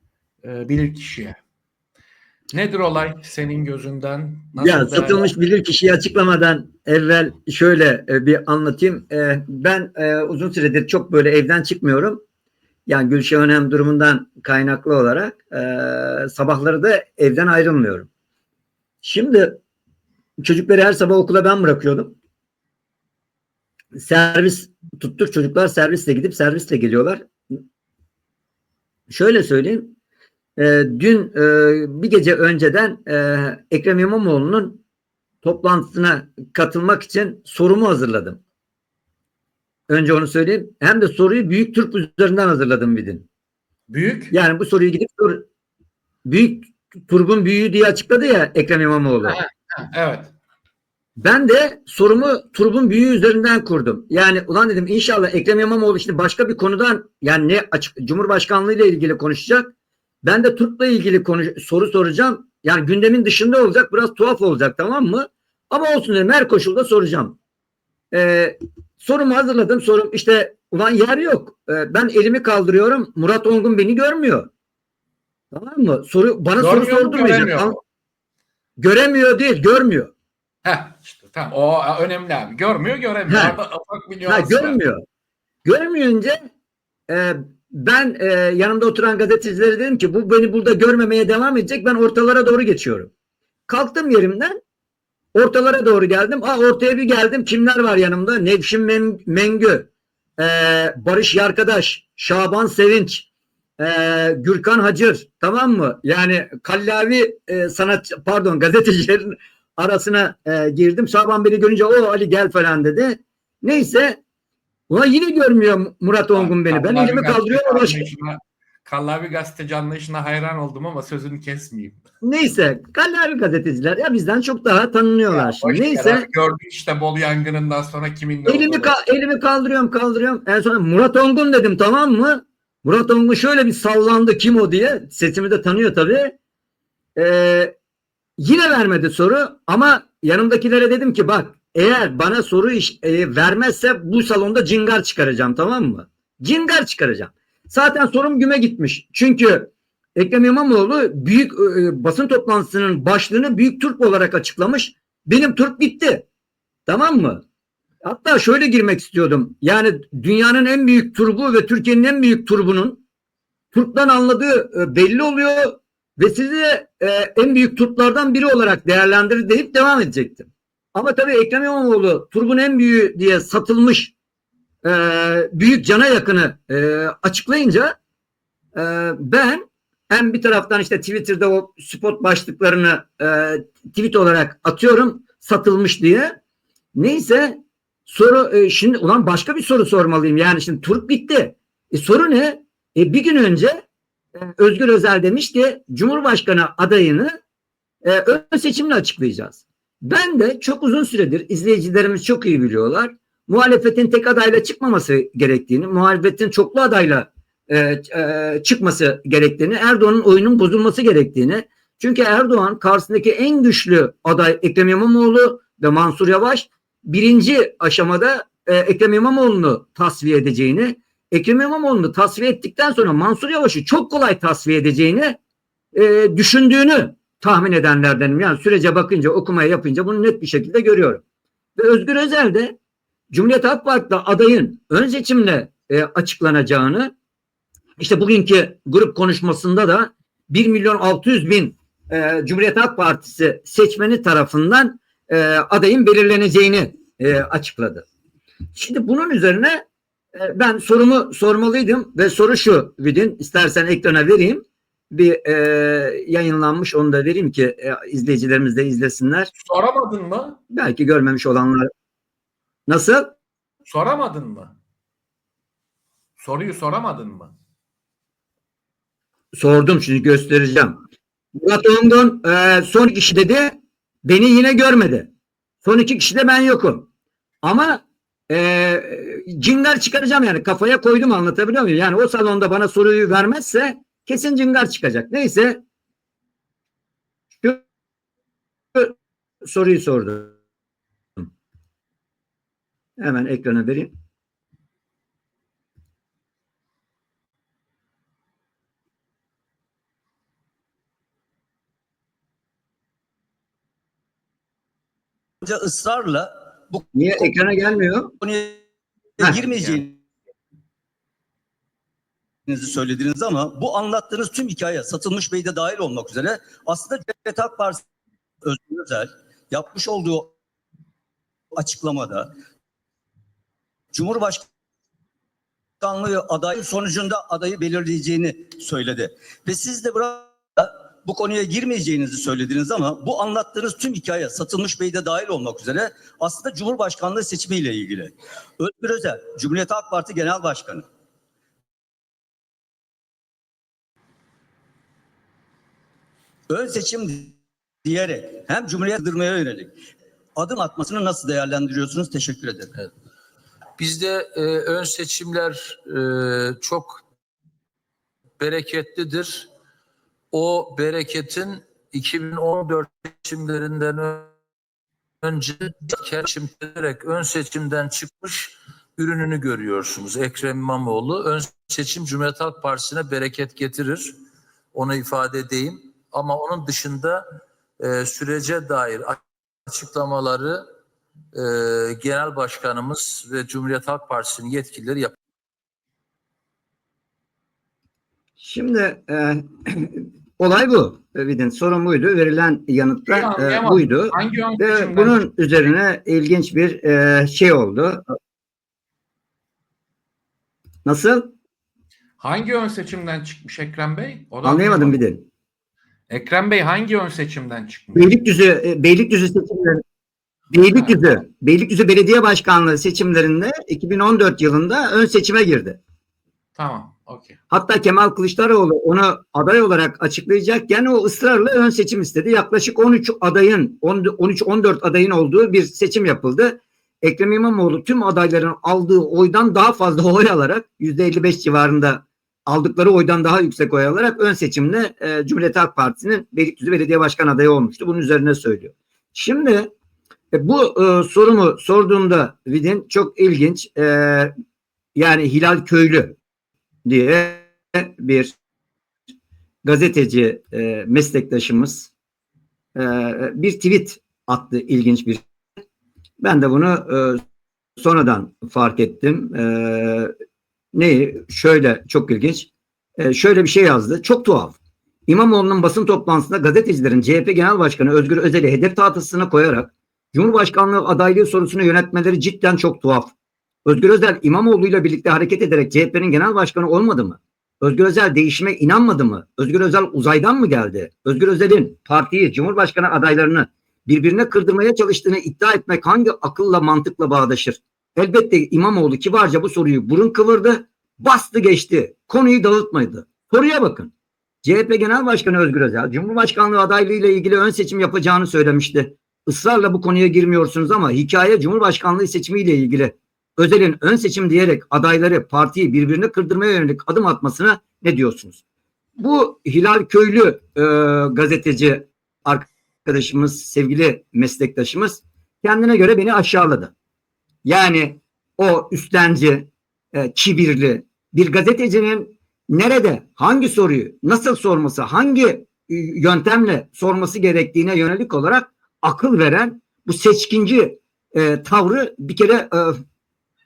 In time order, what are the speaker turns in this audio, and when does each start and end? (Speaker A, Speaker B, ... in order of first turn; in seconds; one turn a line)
Speaker A: 0.4-1.4
Speaker A: 2.5-5.3
Speaker B: 4.6-12.2
Speaker B: 12.9-18.1
Speaker B: 19.0-19.6
Speaker B: 20.4-22.2
Speaker B: 23.9-27.3
Speaker B: 29.1-30.0
Speaker B: 30.6-34.8
Speaker B: 35.4-38.4
Speaker B: 39.9-43.3
Speaker A: 43.9-44.3
Speaker B: 44.3-45.5
Speaker B: 46.2-49.4
Speaker A: 49.2-50.3
Speaker B: 51.2-67.4
Speaker B: 68.1-74.5
Speaker B: 75.5-77.8
Speaker A: 76.6-77.8
Speaker B: 78.8-80.1
Speaker A: 80.6-84.8
Speaker B: 83.3-83.6
Speaker B: 84.3-85.0
Speaker B: 85.7-86.4
Speaker B: 87.1-93.1
Speaker B: 93.7-94.5
Speaker B: 95.3-103.3
Speaker B: 103.8-114.2
Speaker B: 114.9-118.1
Speaker A: 116.3-122.0
Speaker B: 122.2-126.3
Speaker A: 125.3-128.9
Speaker B: 128.5-136.3
Speaker B: 137.2-137.7
Speaker B: 138.4-156.3
Speaker B: 156.9-157.4
Speaker B: 158.0-163.0
Speaker B: 163.7-174.1
Speaker B: 174.8-177.9
Speaker B: 178.8-186.4
Speaker B: 186.9-193.8
Speaker B: 194.4-197.3
Speaker B: 198.0-225.4
Speaker B: 225.9-231.2
Speaker B: 231.8-232.8
Speaker B: 233.3-237.1
Speaker B: 238.0-248.1
Speaker B: 248.7-249.8
Speaker B: 250.4-259.5
Speaker A: 259.6-260.6
Speaker B: 260.7-261.9
Speaker B: 262.9-263.3
Speaker A: 263.8-264.8
Speaker A: 266.4-267.6
Speaker B: 269.5-271.0
Speaker B: 271.6-275.3
Speaker B: 275.8-277.1
Speaker B: 277.6-285.8
Speaker B: 288.9-290.6
Speaker B: 293.2-294.1
Speaker C: 305.6-307.1
Speaker B: 307.1-308.3
Speaker C: 308.4-308.9
Speaker C: 309.4-310.2
Speaker C: 312.7-318.0
Speaker C: 318.6-320.5
Speaker C: 321.8-322.5
Speaker C: 324.1-324.7
Speaker C: 326.0-341.1
Speaker C: 346.7-349.9
Speaker C: 350.6-352.9
Speaker D: 354.0-357.2
Speaker D: 358.6-359.7
Speaker D: 360.5-364.5
Speaker D: 365.4-374.3
Speaker D: 374.9-377.4
Speaker D: 378.0-380.8
Speaker D: 381.6-385.3
Speaker B: 388.6-398.2
Speaker A: 393.3-395.4
Speaker B: 401.1-401.6
Speaker A: 402.4-405.2
Speaker B: 404.6-405.4
Speaker A: 406.3-408.4
Speaker B: 408.2-410.0
Speaker B: 410.7-416.0
Speaker A: 410.9-411.4
Speaker A: 416.8-417.6
Speaker B: 417.7-439.9
Speaker B: 440.5-444.5
Speaker B: 445.1-446.4
Speaker B: 447.1-448.5
Speaker B: 449.8-452.1
Speaker B: 453.0-455.4
Speaker B: 456.4-457.4
Speaker B: 458.0-460.3
Speaker B: 460.9-464.8
Speaker B: 465.3-473.3
Speaker B: 473.9-494.1
Speaker B: 494.6-508.6
Speaker B: 509.2-516.9
Speaker B: 517.6-533.0